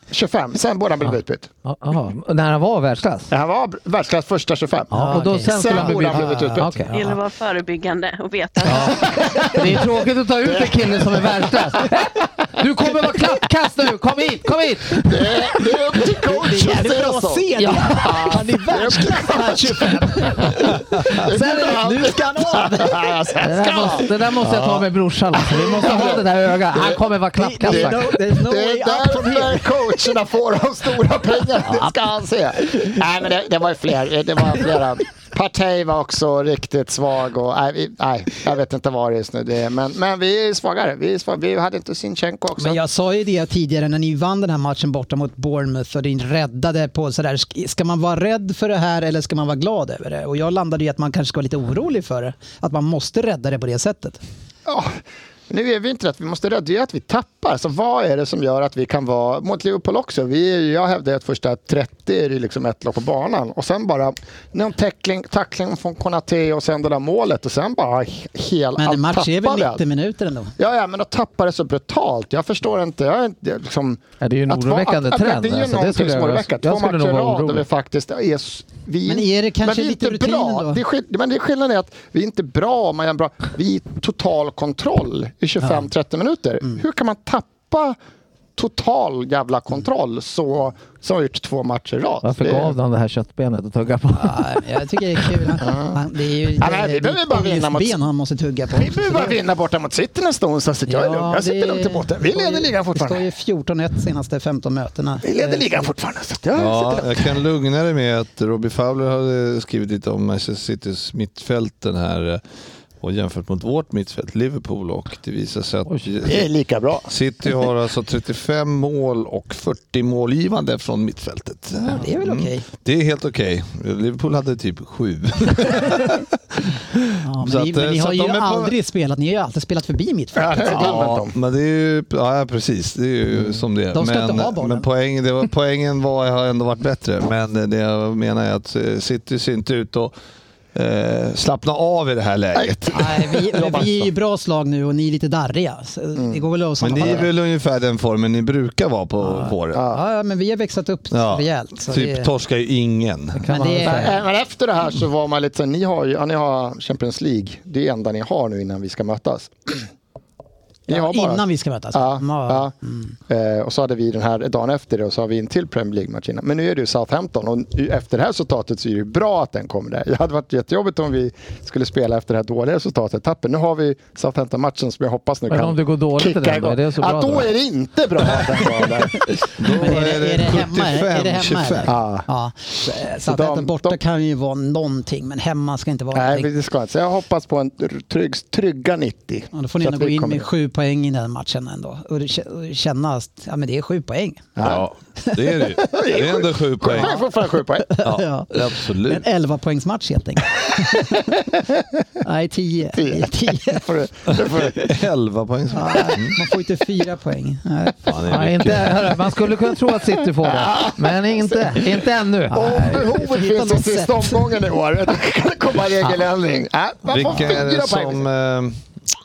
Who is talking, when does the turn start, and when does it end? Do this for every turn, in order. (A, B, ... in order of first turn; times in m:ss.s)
0:00.1-0:01.5 A
0:01.0-0:03.3 B
0:03.3-0:06.8 A
0:04.9-0:07.1 B
0:04.9-0:07.1 C
0:06.9-0:09.2 D
0:08.6-0:15.0 B
0:08.7-0:09.7 C
0:10.4-0:11.5 A
0:15.0-0:19.9 A
0:16.2-0:23.1 C
0:17.6-0:18.0 B
0:21.1-0:24.8 A
0:23.4-0:28.1 B
0:25.4-0:26.2 A
0:25.8-0:26.2 C
0:26.7-0:29.8 C
0:27.7-0:42.8 A
0:31.6-0:32.0 C
0:42.6-0:54.2 C
0:54.6-1:09.8 A
1:08.8-1:10.6 C
1:10.6-1:28.0 A
1:14.2-1:17.6 B
1:19.0-1:20.8 C
1:28.6-1:32.7 A
1:32.2-1:34.6 B
1:34.1-1:39.4 C
1:35.6-1:36.0 A
1:36.6-1:38.0 A
1:38.7-1:43.2 A
1:40.9-1:45.9 C
1:45.2-1:47.4 A
1:46.5-1:52.4 E
1:53.0-1:56.5 E
1:56.2-1:57.5 A
1:57.1-2:08.7 E
2:01.8-2:02.6 C
2:07.2-2:10.9 C
2:10.4-2:11.4 A
2:10.7-2:20.1 E
2:13.9-2:14.9 C
2:20.7-2:22.9 E
2:22.6-2:24.0 A
2:22.9-2:27.3 C
2:26.8-2:29.8 E
2:27.0-2:27.2 A
2:29.3-2:32.3 C
2:29.7-2:30.0 A
2:31.1-2:33.4 E
2:33.3-2:34.2 B
2:33.5-2:34.2 C
2:33.8-2:39.8 A
2:40.9-2:42.7 A
2:40.9-2:43.1 C
2:43.3-2:59.3 A
2:55.5-2:57.5 B
2:59.6-3:01.9 E
2:59.7-3:06.5 C
3:01.8-3:02.2 A
3:03.2-3:04.0 A
3:06.1-3:10.5 A
3:09.5-3:14.6 C
3:14.6-3:14.8 A
3:14.6-3:17.1 E
3:15.2-3:15.8 C
3:15.9-3:17.9 A
3:16.9-3:17.3 C
3:17.8-3:21.3 C
3:18.0-3:19.2 E
3:22.2-3:23.8 C
3:23.0-3:24.9 A
3:24.7-3:26.4 E
3:25.7-3:28.2 C
3:28.0-3:29.1 E
3:28.2-3:33.0 B
3:30.4-3:38.2 A
3:32.6-3:34.5 C
3:37.1-3:38.8 E